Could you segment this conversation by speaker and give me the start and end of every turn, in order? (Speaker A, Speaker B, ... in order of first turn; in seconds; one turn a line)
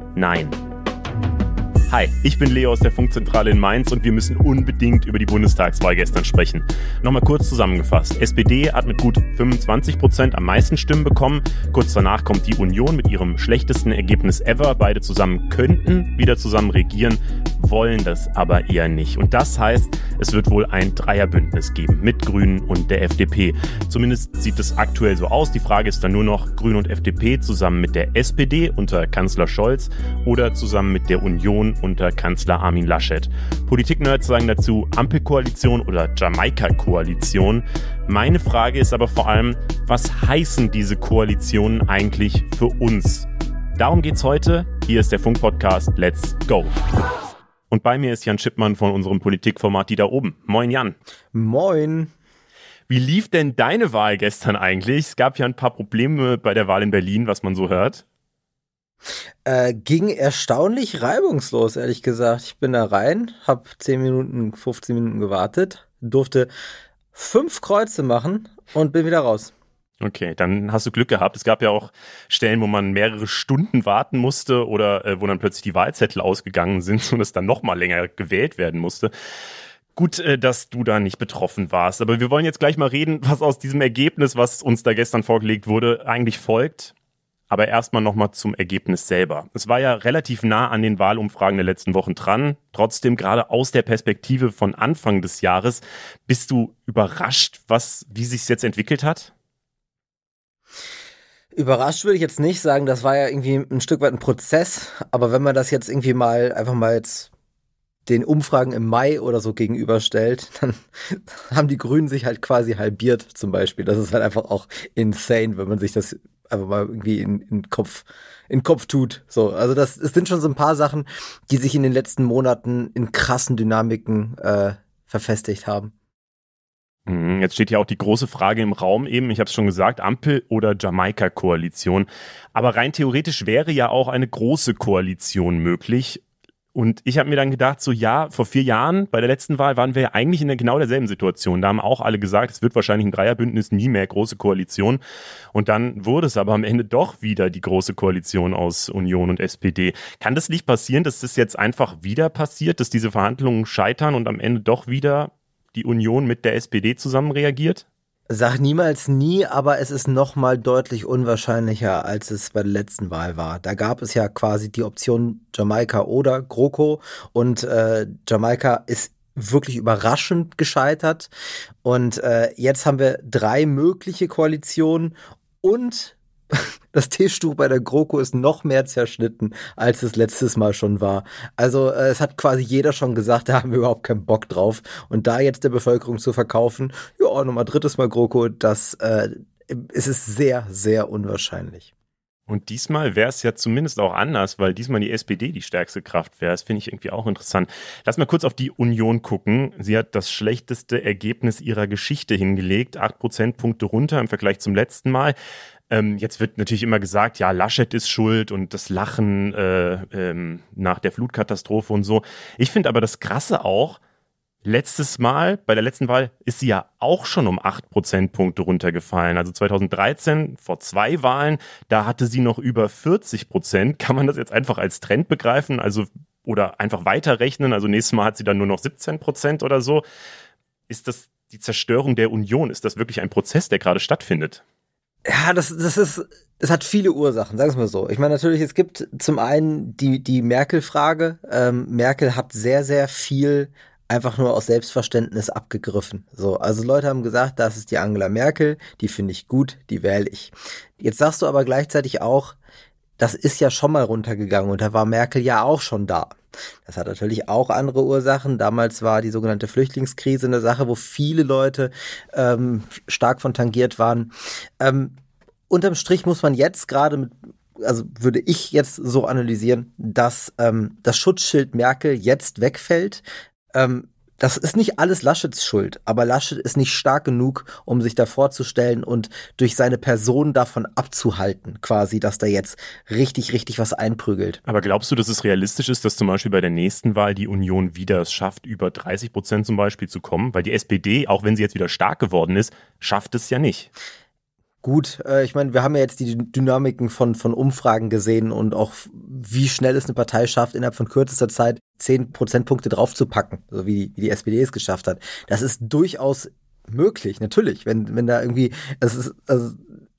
Speaker A: 0.1-0.6
Speaker A: 1.9-46.7
Speaker A: 47.7-51.0
Speaker B: 51.3-52.1
Speaker A: 52.9-58.0
Speaker B: 59.4-66.5
Speaker B: 67.1-69.5
Speaker A: 70.0-79.1
Speaker A: 79.9-86.9
Speaker A: 87.5-99.3
Speaker B: 101.5-107.3
Speaker B: 108.0-125.9
Speaker A: 127.1-136.2
Speaker A: 136.7-145.0
Speaker A: 145.5-157.8
Speaker B: 158.3-171.3
Speaker B: 171.8-191.9
Speaker A: 192.5-205.3
Speaker A: 205.9-214.0
Speaker A: 214.6-230.0
Speaker A: 230.9-234.6
Speaker B: 235.2-252.6
Speaker B: 253.2-265.1
Speaker B: 265.7-284.6
Speaker A: 284.7-293.9
Speaker B: 294.8-309.8